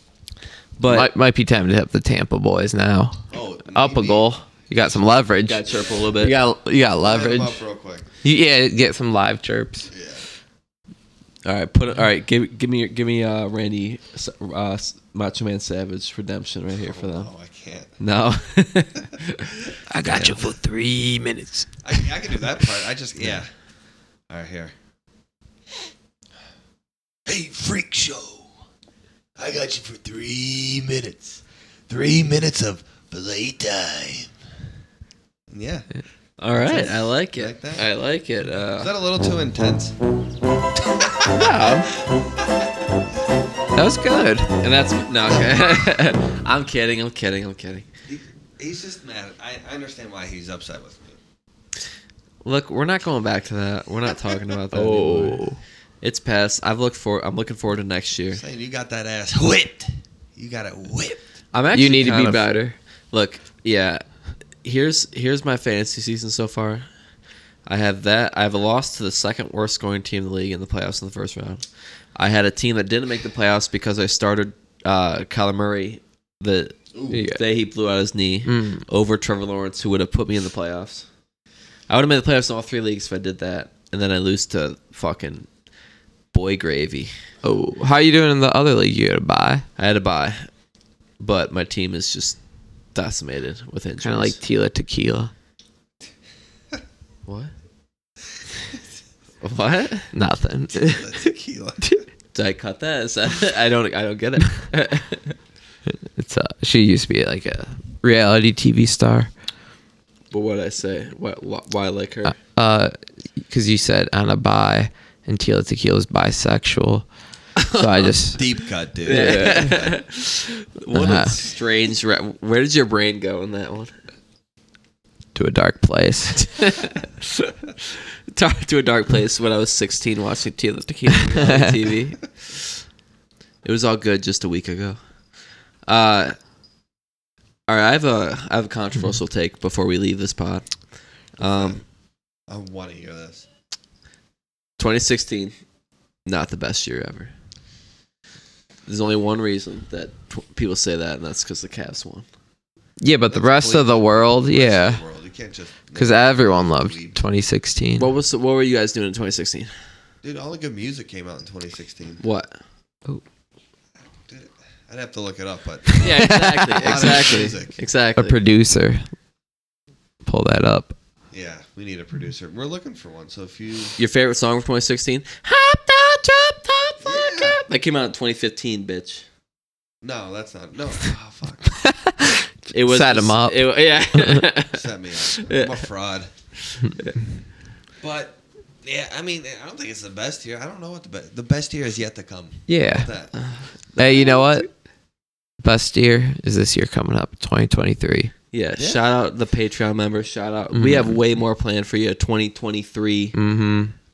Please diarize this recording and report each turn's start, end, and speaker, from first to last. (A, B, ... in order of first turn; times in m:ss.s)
0:00.8-0:01.1 A
0:00.8-0:05.6 B
0:03.3-0:04.2 C
0:05.4-0:06.3 A
0:06.2-0:07.6 B
0:07.0-0:08.0 C
0:08.2-0:09.9 B
0:09.9-0:10.2 C
0:11.4-0:17.3 A
0:16.8-0:17.9 C
0:18.0-0:20.4 A
0:19.9-0:22.1 B
0:21.8-0:23.5 C
0:24.3-0:24.7 C
0:27.2-0:28.5 C
0:29.4-0:34.3 C
0:35.5-0:35.8 C
0:36.4-0:38.9 A
0:36.6-0:37.8 C
0:38.7-0:40.0 C
0:40.9-0:41.3 C
0:41.3-0:41.9 A
0:42.1-0:42.6 C
0:43.7-0:44.6 B
0:44.6-0:47.9 A
0:48.0-0:51.2 C
0:52.4-0:55.5 A
0:54.7-0:55.6 B
0:56.0-0:58.4 A
0:58.3-1:01.2 C
1:01.5-1:04.0 A
1:01.7-1:02.8 B
1:04.6-1:06.9 A
1:07.6-1:11.6 A
1:12.2-1:16.8 A
1:16.9-1:17.2 C
1:17.1-1:17.4 B
1:17.3-1:21.1 A
1:18.4-1:18.8 B
1:21.9-1:25.5 A
1:26.3-1:27.1 A
1:27.4-1:29.6 B
1:29.8-1:30.5 A
1:31.2-1:32.4 A
1:32.9-1:34.4 A
1:34.0-1:35.3 B
1:37.2-1:37.5 A
1:39.4-1:40.1 A
1:40.1-1:41.1 B
1:40.8-1:41.9 C
1:42.3-1:45.4 A
1:46.1-1:49.3 B
1:50.3-1:52.3 A
1:52.2-1:57.1 B
1:57.6-1:58.1 A
1:57.7-1:58.4 B
1:58.3-2:00.0 C
1:59.0-1:59.8 B
1:59.0-2:03.9 A
2:00.9-2:01.4 B
2:05.3-2:06.4 B
2:06.4-2:12.7 A
2:11.3-2:11.8 B
2:13.6-2:15.0 A
2:15.9-2:16.4 A
2:17.7-2:20.6 A
2:21.4-2:21.8 A
2:21.4-2:21.8 C
2:22.5-2:23.5 C
2:24.8-2:25.6 A
2:26.2-2:27.3 A
2:28.9-2:32.2 A
2:33.0-2:35.0 B
2:33.3-2:37.2 C
2:35.9-2:38.1 B
2:38.0-2:39.7 A
2:40.2-2:42.2 C
2:42.2-2:42.6 A
2:44.1-2:47.7 C
2:45.9-2:47.4 B
2:46.0-2:48.4 A
2:48.2-2:49.1 B
2:50.2-2:50.9 B
2:51.3-2:54.0 C
2:54.0-2:59.2 A
2:57.0-2:57.6 C
3:00.0-3:01.8 C
3:01.8-3:04.4 B
3:02.7-3:05.8 A
3:04.7-3:06.3 C
3:06.7-3:07.2 A
3:08.0-3:13.3 C
3:12.7-3:13.1 B
3:13.4-3:14.6 A
3:14.0-3:14.7 B
3:15.6-3:18.3 B
3:18.5-3:23.3 A
3:20.7-3:21.2 B
3:23.3-3:23.9 B